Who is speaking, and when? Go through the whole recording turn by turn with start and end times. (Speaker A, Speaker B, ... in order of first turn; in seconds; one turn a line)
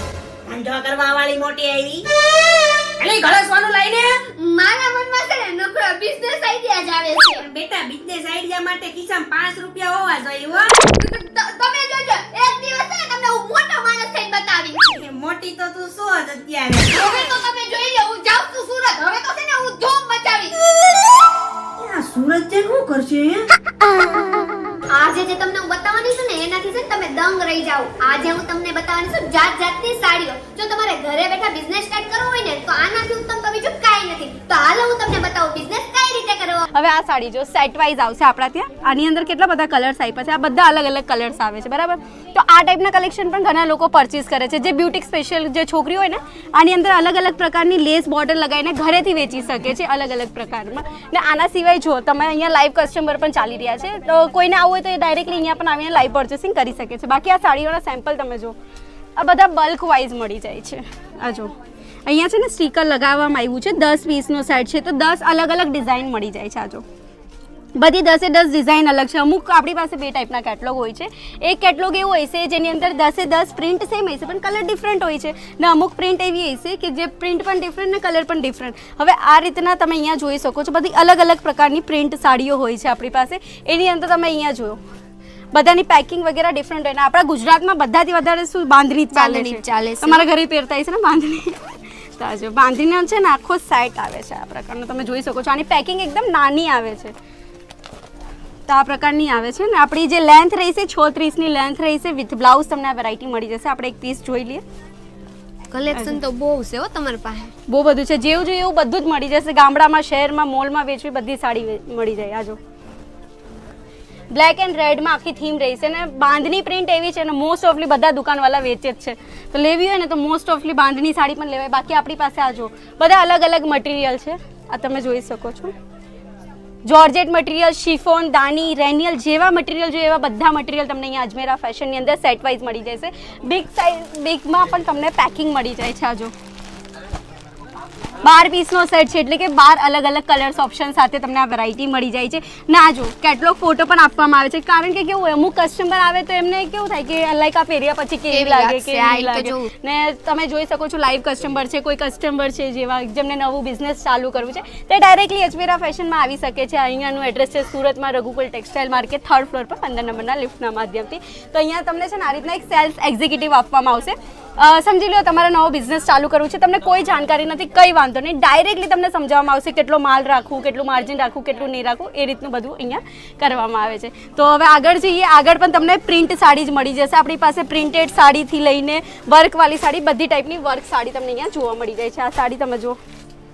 Speaker A: 0.5-2.1
Speaker A: 3.0-4.2
Speaker B: 4.4-7.5
Speaker A: 7.4-10.8
Speaker B: 10.9-14.9
Speaker A: 14.9-16.9
Speaker B: 16.9-20.5
Speaker A: 21.8-23.5
Speaker B: 24.9-36.7
Speaker C: 36.7-58.5
Speaker C: 59.2-61.5
Speaker C: 62.1-66.8
Speaker C: 67.8-84.8
Speaker C: 85.5-97.1
Speaker B: 89.1-90.3
Speaker C: 98.7-104.6
Speaker B: 105.7-107.5
Speaker C: 105.9-106.2
Speaker C: 107.7-112.6
Speaker C: 114.3-125.7
Speaker C: 126.9-136.3
Speaker C: 138.2-183.0
Speaker B: 148.3-149.7